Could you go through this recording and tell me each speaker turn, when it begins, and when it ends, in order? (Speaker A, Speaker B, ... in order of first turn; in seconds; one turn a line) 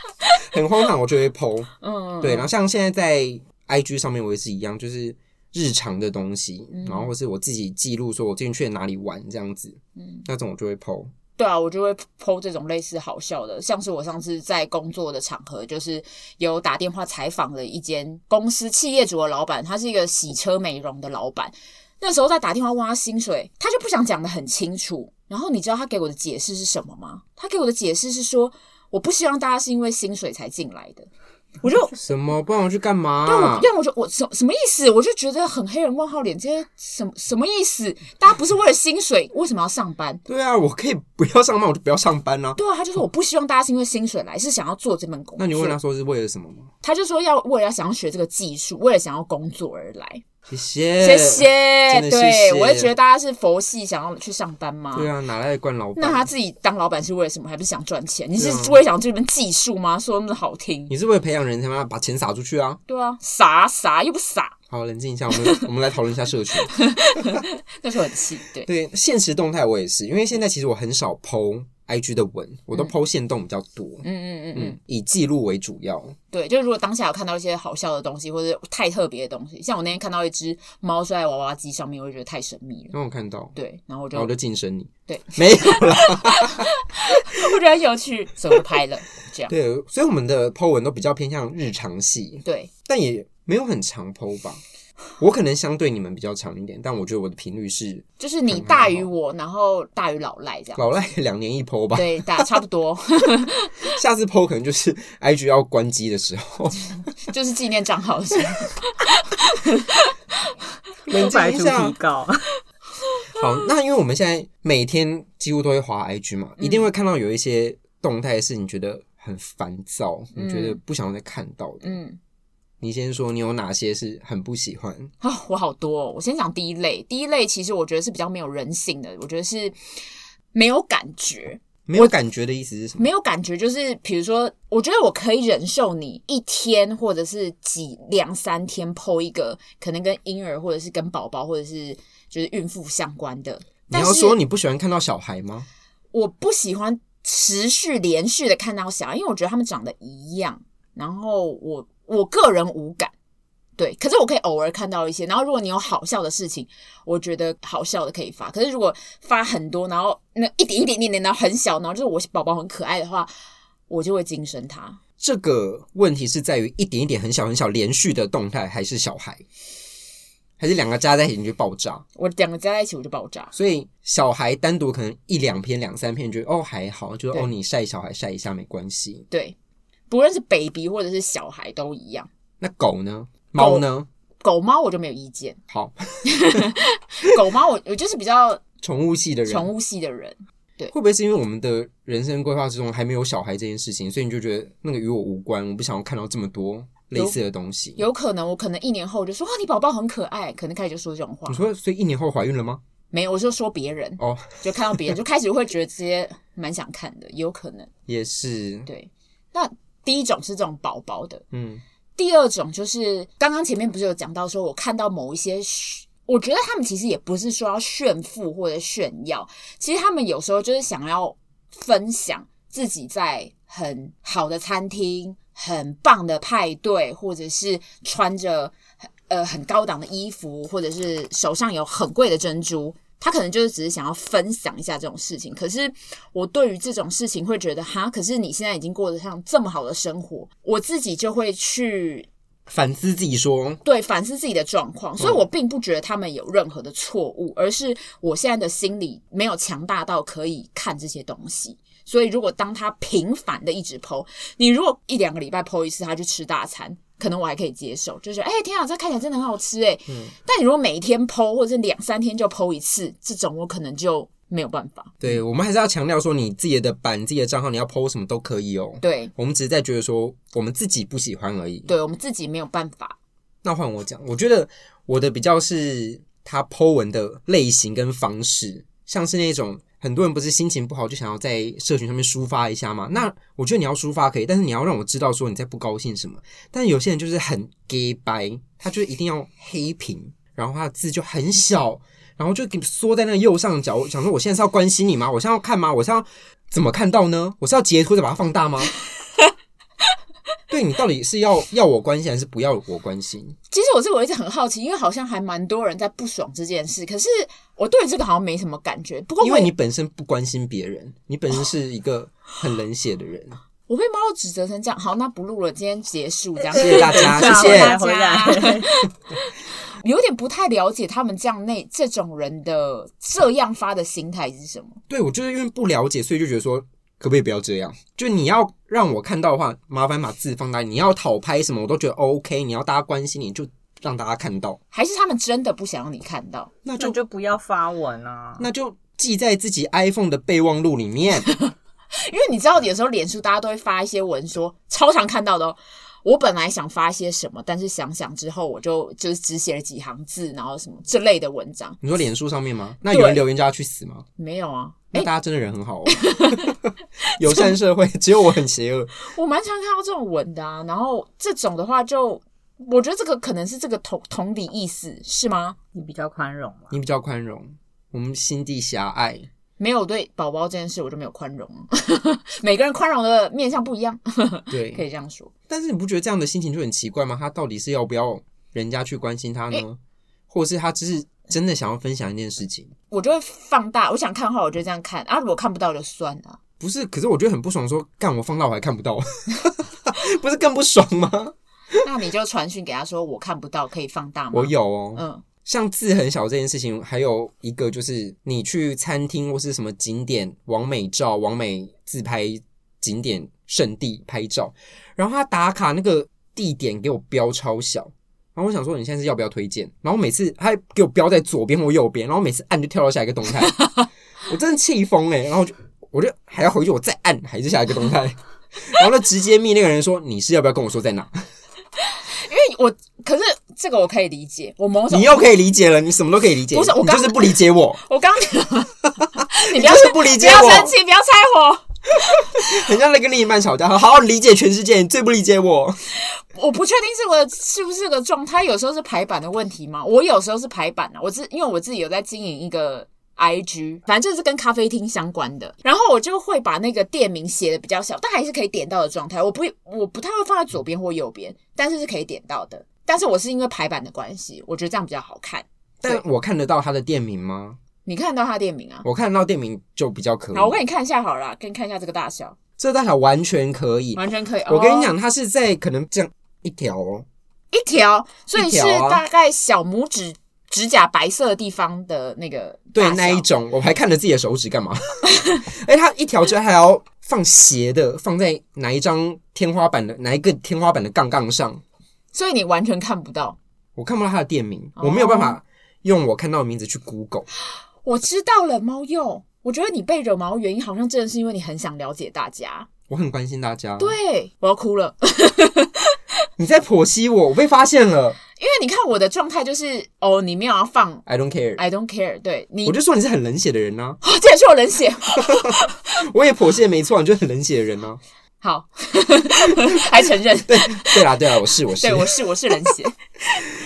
Speaker A: 0.4-1.7
Speaker B: 1.8-2.5
Speaker A: 2.2-11.1
Speaker B: 6.7-7.1
Speaker B: 10.0-10.2
Speaker B: 11.4-31.1
Speaker B: 31.6-32.0
Speaker A: 31.9-33.7
Speaker B: 33.2-40.2
Speaker A: 40.2-42.6
Speaker B: 42.5-45.8
Speaker A: 45.4-46.7
Speaker B: 46.8-50.2
Speaker A: 50.5-52.9
Speaker B: 51.0-55.1
Speaker A: 54.9-56.3
Speaker B: 56.0-60.9
Speaker A: 58.4-58.8
Speaker A: 60.9-62.8
Speaker B: 62.9-64.5
Speaker A: 64.7-67.4
Speaker B: 66.7-68.7
Speaker A: 68.6-76.2
Speaker B: 74.0-74.8
Speaker B: 76.3-82.9
Speaker A: 82.9-83.5
Speaker B: 83.5-84.3
Speaker A: 84.1-86.7
Speaker B: 85.1-89.5
Speaker A: 89.5-94.6
Speaker B: 92.4-92.7
Speaker A: 95.2-99.1
Speaker B: 98.2-100.8
Speaker A: 100.8-102.5
Speaker B: 101.9-103.7
Speaker A: 103.9-106.9
Speaker B: 107.3-110.1
Speaker A: 111.1-112.0
Speaker C: 111.1-112.5
Speaker A: 113.4-122.0
Speaker B: 116.6-116.9
Speaker B: 120.3-120.8
Speaker B: 121.8-122.2
Speaker A: 122.8-125.1
Speaker B: 125.2-129.8
Speaker B: 130.5-132.1
Speaker A: 131.8-133.1
Speaker B: 133.0-144.4
Speaker A: 143.9-145.7
Speaker B: 146.1-153.1
Speaker B: 153.8-163.3
Speaker B: 163.9-165.0
Speaker A: 165.2-169.4
Speaker A: 170.6-172.0
Speaker B: 172.2-173.5
Speaker A: 173.5-179.3
Speaker B: 179.3-179.6
Speaker B: 180.1-182.3
Speaker A: 182.6-184.1
Speaker B: 183.6-183.8
Speaker B: 184.4-185.6
Speaker A: 185.7-186.6
Speaker B: 186.2-188.6
Speaker A: 188.8-189.7
Speaker B: 189.5-190.9
Speaker A: 190.9-198.0
Speaker B: 198.0-201.7
Speaker A: 201.5-202.8
Speaker B: 203.1-207.9
Speaker A: 204.2-205.1
Speaker A: 208.1-208.9
Speaker B: 208.8-211.4
Speaker A: 211.5-211.8
Speaker B: 212.2-228.7
Speaker B: 229.3-242.3
Speaker A: 242.7-243.8
Speaker B: 243.8-265.4
Speaker A: 245.2-245.5
Speaker A: 265.2-271.9
Speaker B: 269.0-269.3
Speaker B: 271.9-273.2
Speaker A: 273.6-298.9
Speaker A: 300.7-303.6
Speaker B: 303.7-309.7
Speaker A: 309.4-313.6
Speaker B: 313.9-325.0
Speaker C: 316.7-318.9
Speaker A: 316.7-318.0
Speaker A: 325.1-334.8
Speaker B: 334.9-336.7
Speaker A: 336.8-337.2
Speaker C: 337.0-338.7
Speaker A: 338.6-341.5
Speaker B: 341.5-352.0
Speaker A: 352.0-354.2
Speaker B: 353.1-353.4
Speaker B: 354.4-355.3
Speaker A: 355.1-359.1
Speaker B: 356.1-356.8
Speaker B: 357.4-357.7
Speaker B: 359.2-365.8
Speaker C: 365.9-366.9
Speaker A: 366.9-369.5
Speaker B: 369.8-375.5
Speaker A: 374.7-375.0
Speaker A: 375.7-380.0
Speaker A: 380.5-382.9
Speaker B: 383.1-386.6
Speaker A: 386.8-392.0
Speaker B: 392.0-395.4
Speaker A: 394.5-413.8
Speaker A: 414.5-421.4
Speaker B: 422.0-425.4
Speaker A: 425.1-428.0
Speaker B: 426.7-432.5
Speaker A: 429.7-430.9
Speaker A: 432.5-436.0
Speaker B: 436.4-456.2
Speaker A: 456.0-457.8
Speaker B: 458.1-459.0
Speaker A: 459.0-460.8
Speaker B: 460.5-462.6
Speaker A: 462.8-467.2
Speaker B: 464.1-465.1
Speaker B: 467.7-473.5
Speaker A: 468.5-469.2
Speaker A: 472.9-481.8
Speaker B: 482.3-483.6
Speaker A: 483.9-487.5
Speaker B: 485.0-485.6
Speaker B: 488.0-492.9
Speaker A: 493.1-494.1
Speaker B: 494.0-496.2
Speaker A: 496.6-498.4
Speaker B: 498.6-501.2
Speaker A: 501.2-501.8
Speaker B: 501.8-503.0
Speaker A: 502.8-504.2
Speaker B: 504.2-505.9
Speaker A: 505.4-508.2
Speaker B: 508.6-511.2
Speaker A: 510.7-512.9
Speaker B: 511.9-513.1